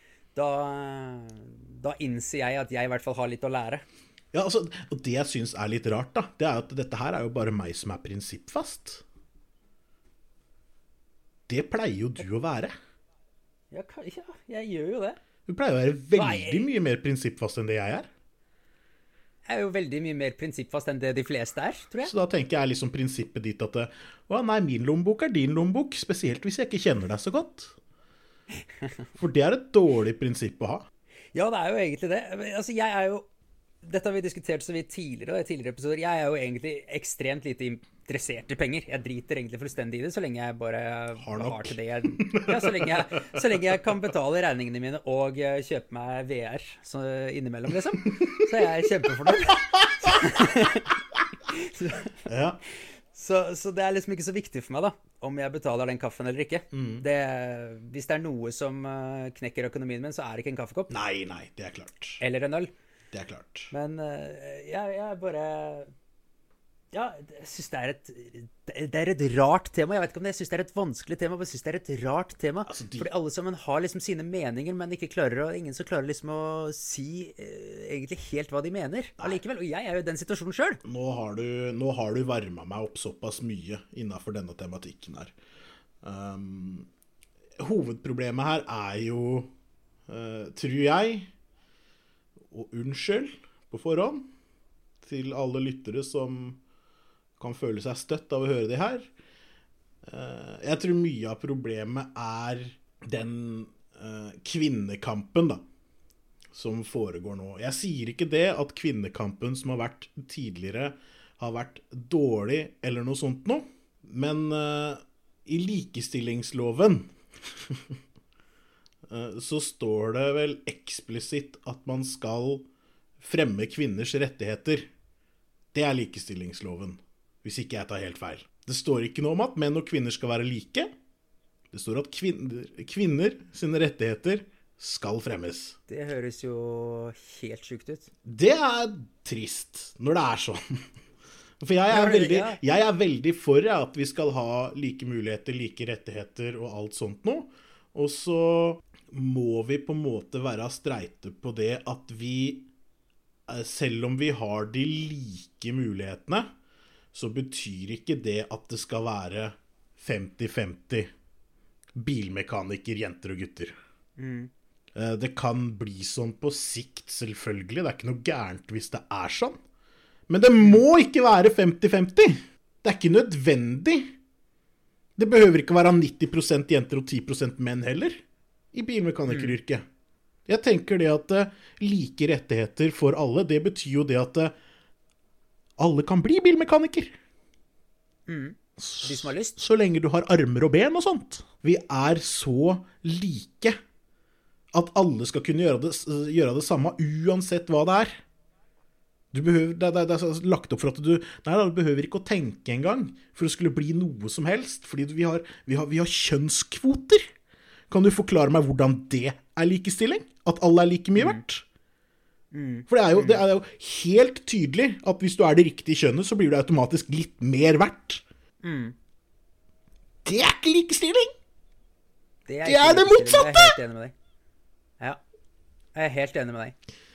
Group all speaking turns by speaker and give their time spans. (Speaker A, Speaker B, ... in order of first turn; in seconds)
Speaker A: 0.3-3.8, 13.7-15.2, 16.1-16.7, 19.4-22.1, 31.3-33.3, 33.8-52.1, 52.7-60.9, 62.2-62.7, 63.7-65.9, 66.9-80.8, 135.9-138.1, 141.9-142.6, 164.2-164.5, 179.3-179.5, 188.3-189.6, 212.5-213.4, 218.6-218.9, 222.5-224.1, 225.9-226.7
Speaker B: 4.3-9.0, 11.5-12.7, 15.4-18.1, 22.0-27.8, 29.1-30.9, 41.2-43.4, 48.0-48.5, 49.8-50.2, 52.2-52.6, 56.7-57.0, 60.9-62.2, 63.1-63.7, 72.7-73.1, 80.8-85.3, 86.0-86.9, 87.6-89.5, 90.1-91.3, 92.5-94.3, 95.0-96.6, 97.4-99.1, 100.1-105.6, 106.5-117.9, 119.1-122.7, 123.2-124.9, 125.7-130.9, 131.7-135.8, 138.2-140.8, 141.6-152.7, 153.5-156.5, 157.1-161.1, 161.9-163.7, 164.9-169.6, 170.3-174.2, 175.2-179.8, 180.5-184.5, 185.8-187.2, 188.8-193.8, 194.7-198.2, 199.3-207.3, 207.9-211.6, 212.9-218.2, 220.2-221.3, 222.6-223.8